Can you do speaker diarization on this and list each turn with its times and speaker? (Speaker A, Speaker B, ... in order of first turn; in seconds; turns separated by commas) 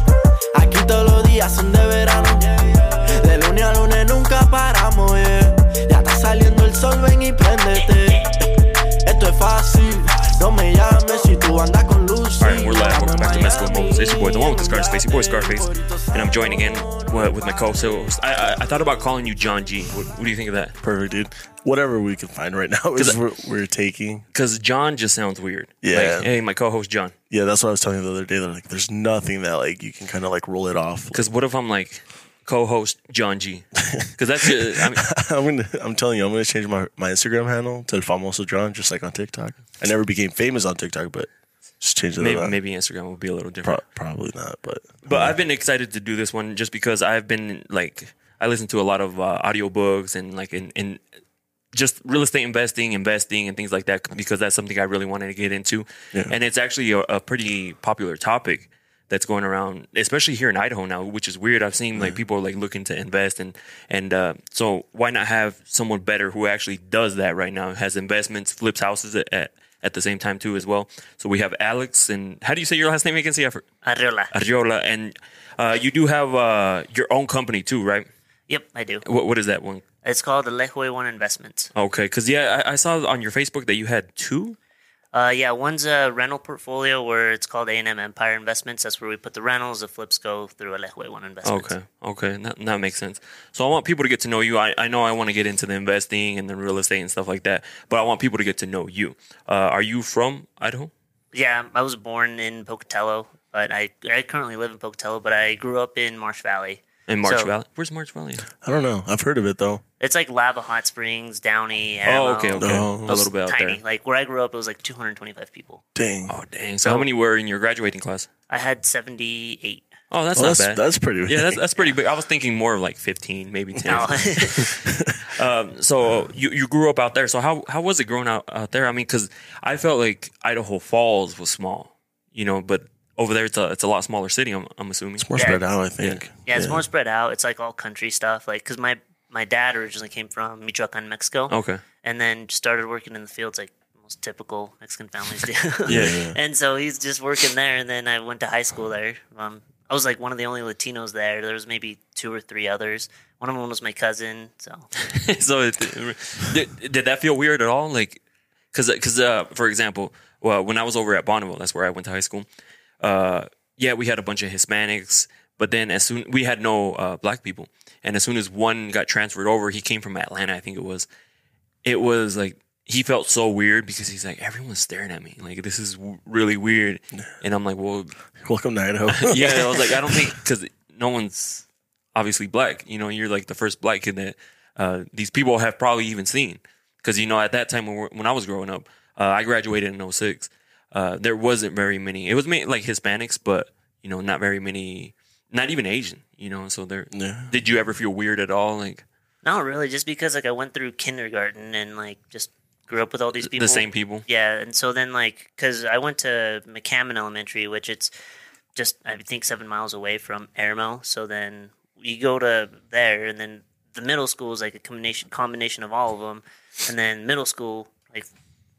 Speaker A: 0.5-17.7, Speaker B: 12.4-20.7, Speaker C: 20.8-24.2, Speaker B: 22.9-23.2, Speaker B: 24.3-27.1, Speaker C: 25.8-26.3, Speaker C: 27.3-31.2, Speaker B: 31.1-35.0, Speaker C: 33.8-42.5, Speaker B: 42.2-43.8, Speaker C: 43.6-45.4, Speaker B: 45.0-51.0, Speaker B: 51.7-73.7, Speaker D: 73.8-74.3, Speaker B: 74.3-78.1, Speaker D: 78.5-79.0, Speaker B: 79.0-79.8, Speaker D: 80.0-81.7, Speaker B: 81.7-84.6, Speaker D: 85.1-91.7, Speaker B: 91.4-100.9, Speaker D: 101.3-107.5, Speaker B: 107.1-108.5, Speaker C: 108.6-109.8, Speaker D: 110.0-115.8, Speaker B: 112.0-113.8, Speaker C: 112.6-113.2, Speaker C: 115.9-116.3, Speaker B: 116.3-118.3, Speaker D: 118.5-119.9, Speaker B: 120.1-136.2, Speaker C: 120.3-121.6, Speaker D: 123.8-124.8, Speaker C: 124.7-125.1, Speaker C: 135.2-136.8, Speaker D: 135.4-135.6, Speaker D: 136.4-154.9, Speaker B: 141.5-141.8, Speaker B: 145.9-146.1, Speaker C: 145.9-146.3, Speaker B: 155.0-158.2, Speaker B: 158.7-162.5, Speaker B: 163.0-171.1, Speaker B: 171.8-178.2, Speaker C: 178.3-180.4, Speaker B: 179.1-199.0, Speaker C: 197.1-197.5, Speaker D: 199.4-208.1, Speaker B: 203.3-204.2, Speaker D: 208.7-218.3